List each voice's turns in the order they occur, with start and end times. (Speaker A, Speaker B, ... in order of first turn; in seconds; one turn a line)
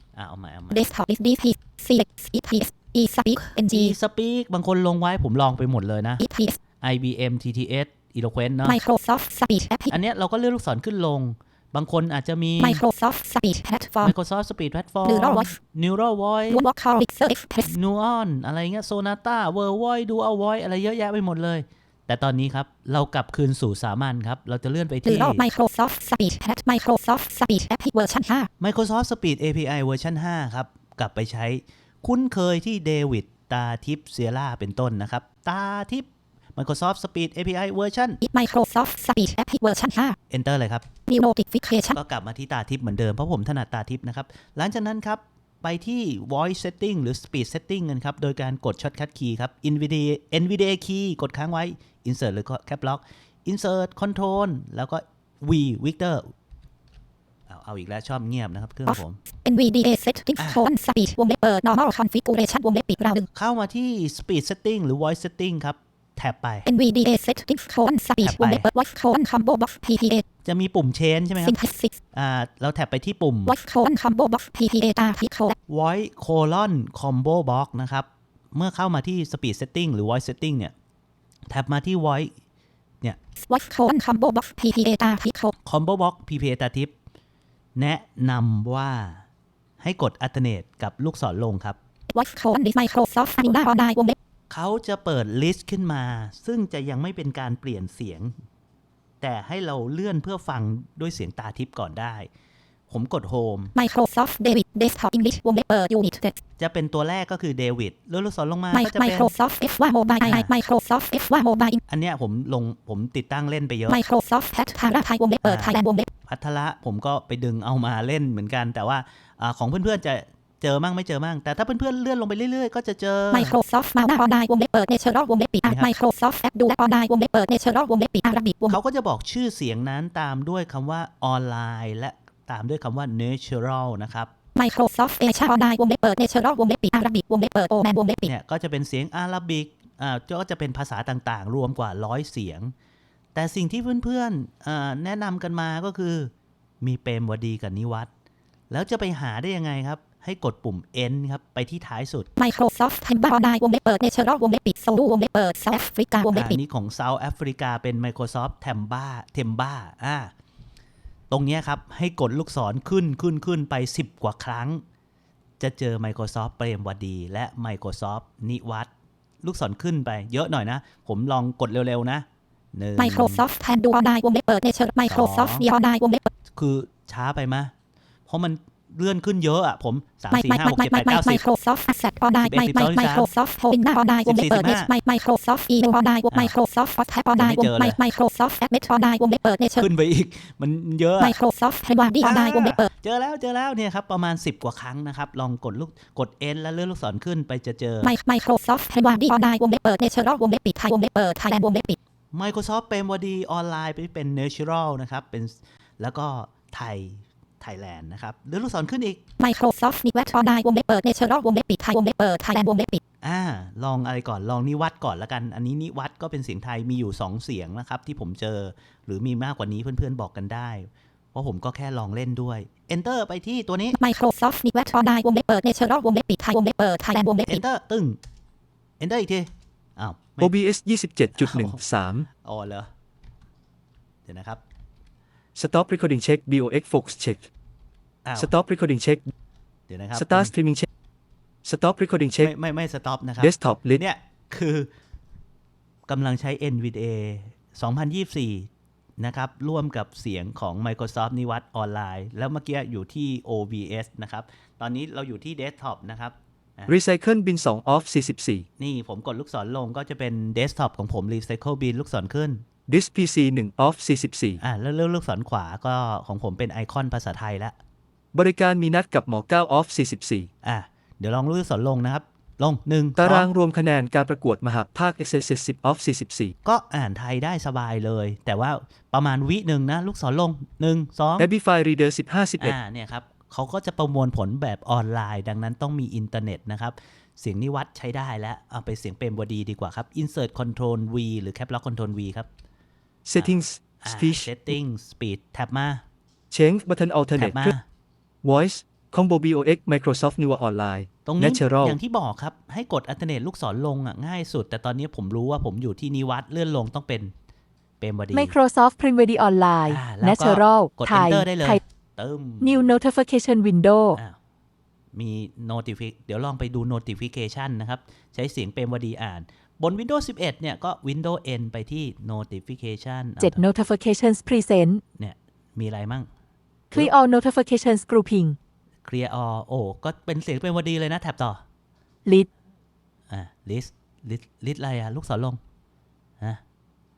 Speaker A: 0.1-0.8
Speaker B: 0.7-3.9
Speaker A: 3.7-6.2
Speaker B: 6.2-6.6
Speaker A: 6.8-8.8
Speaker B: 8.6-9.9
Speaker A: 9.9-12.8
Speaker B: 12.6-14.1
Speaker A: 14.0-16.6
Speaker B: 15.1-15.5
Speaker B: 16.5-17.7
Speaker A: 17.6-25.4
Speaker B: 25.1-28.5
Speaker A: 28.6-38.2
Speaker B: 38.2-40.2
Speaker A: 40.3-40.9
Speaker B: 41.1-42.0
Speaker A: 41.9-56.3
Speaker A: 57.5-59.2
Speaker B: 58.9-63.3
Speaker A: 60.4-60.6
Speaker A: 63.3-66.7
Speaker B: 66.7-70.2
Speaker A: 68.2-68.7
Speaker A: 70.4-71.5
Speaker B: 71.4-72.0
Speaker A: 72.1-73.5
Speaker B: 73.5-75.5
Speaker A: 75.7-80.7
Speaker A: 81.5-82.3
Speaker B: 83.4-85.5
Speaker A: 85.6-86.9
Speaker A: 87.8-89.2
Speaker A: 89.8-91.8
Speaker B: 92.1-94.2
Speaker A: 94.5-98.3
Speaker A: 99.2-102.3
Speaker A: 102.9-103.7
Speaker B: 103.7-106.4
Speaker A: 106.6-109.3
Speaker B: 108.7-111.8
Speaker A: 110.2-110.5
Speaker A: 111.9-114.0
Speaker B: 113.9-116.1
Speaker A: 115.4-123.6
Speaker B: 123.3-128.8
Speaker A: 125.6-125.9
Speaker A: 128.7-134.3
Speaker B: 134.6-138.3
Speaker A: 138.2-142.7
Speaker A: 143.3-146.3
Speaker A: 146.8-148.1
Speaker A: 148.7-152.3
Speaker B: 152.4-156.6
Speaker A: 156.3-160.3
Speaker A: 161.3-164.8
Speaker A: 165.6-168.9
Speaker A: 169.4-173.4
Speaker B: 173.0-176.3
Speaker A: 175.1-175.7
Speaker A: 176.5-177.7
Speaker A: 178.3-181.4
Speaker B: 180.3-189.9
Speaker A: 182.4-183.3
Speaker A: 184.2-184.9
Speaker A: 187.4-188.0
Speaker A: 189.8-191.4
Speaker B: 191.2-192.9
Speaker A: 192.2-198.1
Speaker B: 198.0-202.0
Speaker A: 202.3-209.2
Speaker B: 209.4-213.0
Speaker A: 213.2-224.0
Speaker B: 223.9-227.6
Speaker A: 227.5-228.2
Speaker A: 229.0-230.5
Speaker C: 230.4-232.3
Speaker A: 231.4-231.8
Speaker A: 232.3-232.9
Speaker A: 234.3-234.6
Speaker C: 235.5-237.4
Speaker C: 238.4-239.3
Speaker A: 239.9-240.5
Speaker C: 240.1-240.9
Speaker C: 241.6-242.5
Speaker A: 242.4-244.9
Speaker C: 243.4-244.0
Speaker A: 246.1-248.7
Speaker A: 249.2-256.9
Speaker C: 256.9-258.6
Speaker A: 258.8-262.6
Speaker C: 262.9-264.6
Speaker A: 264.6-267.8
Speaker C: 268.3-270.5
Speaker A: 270.6-273.5
Speaker C: 273.1-276.5
Speaker A: 276.6-281.5
Speaker C: 281.4-282.8
Speaker A: 282.6-292.5
Speaker C: 293.2-294.5
Speaker A: 293.4-296.0
Speaker C: 296.5-297.7
Speaker A: 297.3-297.8
Speaker C: 298.4-302.0
Speaker A: 301.2-307.3
Speaker A: 308.0-308.5
Speaker D: 308.3-311.8
Speaker A: 309.9-312.9
Speaker D: 312.6-314.2
Speaker A: 315.1-323.6
Speaker D: 323.4-325.0
Speaker A: 325.2-326.3
Speaker D: 326.9-328.6
Speaker A: 329.0-331.6
Speaker A: 333.3-335.6